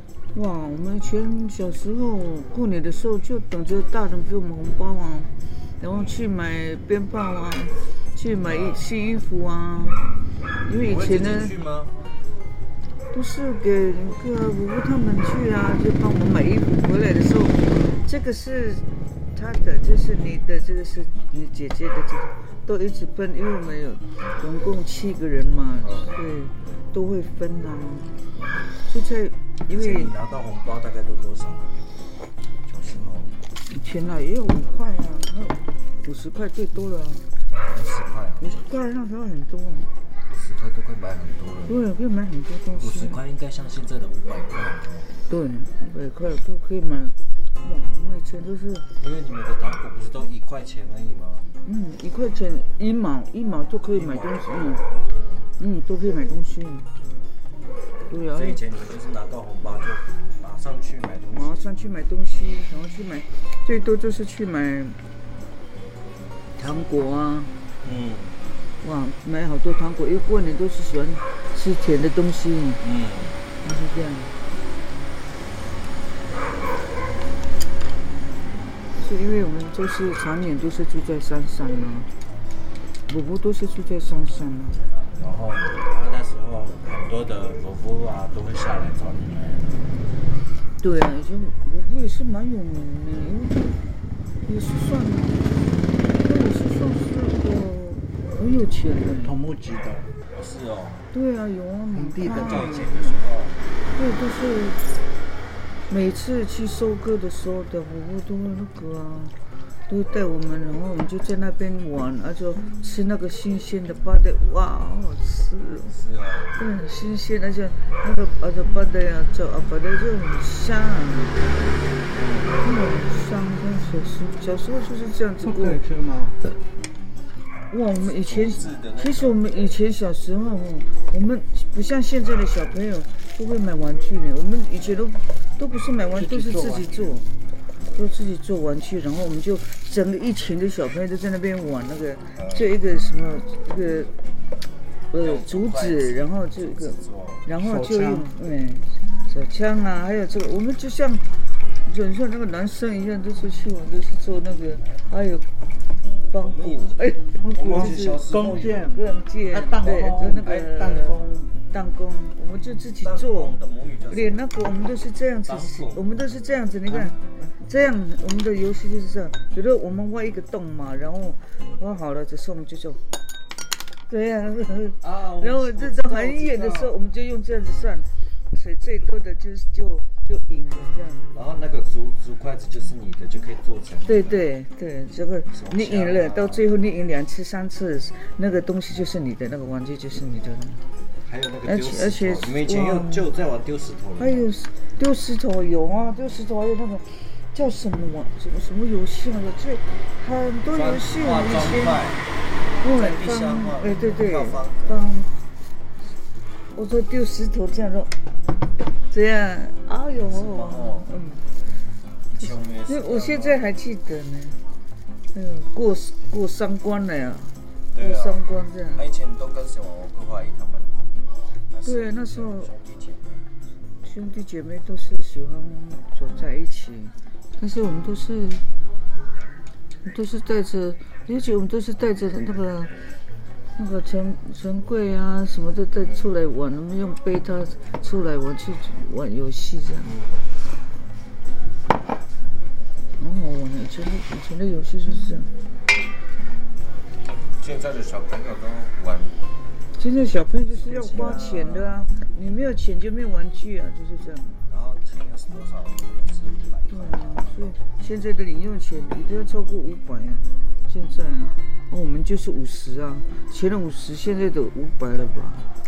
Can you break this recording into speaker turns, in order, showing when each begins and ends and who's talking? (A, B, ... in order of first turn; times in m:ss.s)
0:00.3-0:10.0 A
0:05.8-0:06.2 B
0:08.4-0:08.8 B
0:10.6-0:11.5 A
0:10.7-0:11.9 B
0:13.1-0:28.1 A
0:25.8-0:26.2 B
0:28.9-0:30.1 A
0:29.7-0:31.8 B
0:32.6-0:33.3 B
0:33.7-0:37.2 A
0:37.7-0:38.6 B
0:38.4-0:39.9 A
0:40.3-0:41.8 B
0:41.7-0:43.2 A
0:42.8-0:45.1 B
0:45.3-0:48.8 A
0:49.0-0:51.5 B
0:51.6-0:54.8 A
0:53.9-0:55.5 B
0:55.6-0:56.9 A
0:58.1-0:58.6 A
0:58.3-1:01.6 B
1:01.3-1:05.0 A
1:06.6-1:07.5 A
1:07.8-1:08.4 B
1:08.8-1:12.8 A
1:12.8-1:13.4 B
1:13.6-1:14.3 A
1:19.0-1:22.1 A
1:23.1-1:24.8 A
1:25.1-1:29.8 B
1:30.8-1:33.8 A
1:34.4-1:35.5 A
1:36.2-1:39.4 A
1:39.2-1:40.1 C
1:40.3-1:41.1 B
1:41.1-1:43.2 A
1:41.9-1:42.8 C
1:42.3-1:43.6 B
1:43.9-1:44.8 A
1:45.9-1:49.3 A
1:49.9-1:55.9 A
1:55.9-1:56.6 B
1:56.6-2:01.4 A
2:02.1-2:02.7 B
2:02.6-2:05.8 A
2:05.4-2:06.4 C
2:07.7-2:17.3 A
2:07.9-2:09.5 B
2:16.1-2:17.2 C
2:17.9-2:24.1 A
2:22.4-2:22.7 B
2:25.1-2:31.3 A
2:25.1-2:27.4 B
2:27.6-2:28.3 C
2:31.8-2:35.4 A
2:36.3-2:43.6 A
2:36.3-2:38.8 B
2:37.5-2:41.5 C
2:39.8-2:40.3 B
2:43.0-2:44.4 B
2:44.1-2:53.0 A
2:45.5-2:46.4 B
2:54.1-3:01.3 A
2:55.0-2:56.9 B
3:01.3-3:04.4 B
3:04.0-3:10.8 A
3:05.5-3:06.6 B
3:11.2-3:14.5 B
3:11.6-3:13.3 A
3:14.2-3:22.1 A
3:20.7-3:22.3 B
3:22.8-3:25.3 A
3:22.8-3:25.1 B
3:26.7-3:28.1 A
3:29.1-3:31.4 A
3:30.2-3:31.1 B
3:32.3-3:33.6 B
3:32.4-3:34.6 A
3:35.3-3:39.0 A
3:37.9-3:38.4 B
3:38.9-3:41.0 B
3:41.7-3:43.5 B
3:41.8-3:42.7 A
3:44.0-3:48.6 A
3:50.0-3:52.9 A
3:53.8-4:00.1 A
3:56.0-3:56.3 B
4:00.0-4:00.5 B
4:03.2-4:05.5 A
4:07.6-4:09.4 B
4:10.0-4:14.6 A
4:10.8-4:11.8 B
4:10.9-4:11.4 C
4:14.7-4:17.6 B
4:16.9-4:25.7 A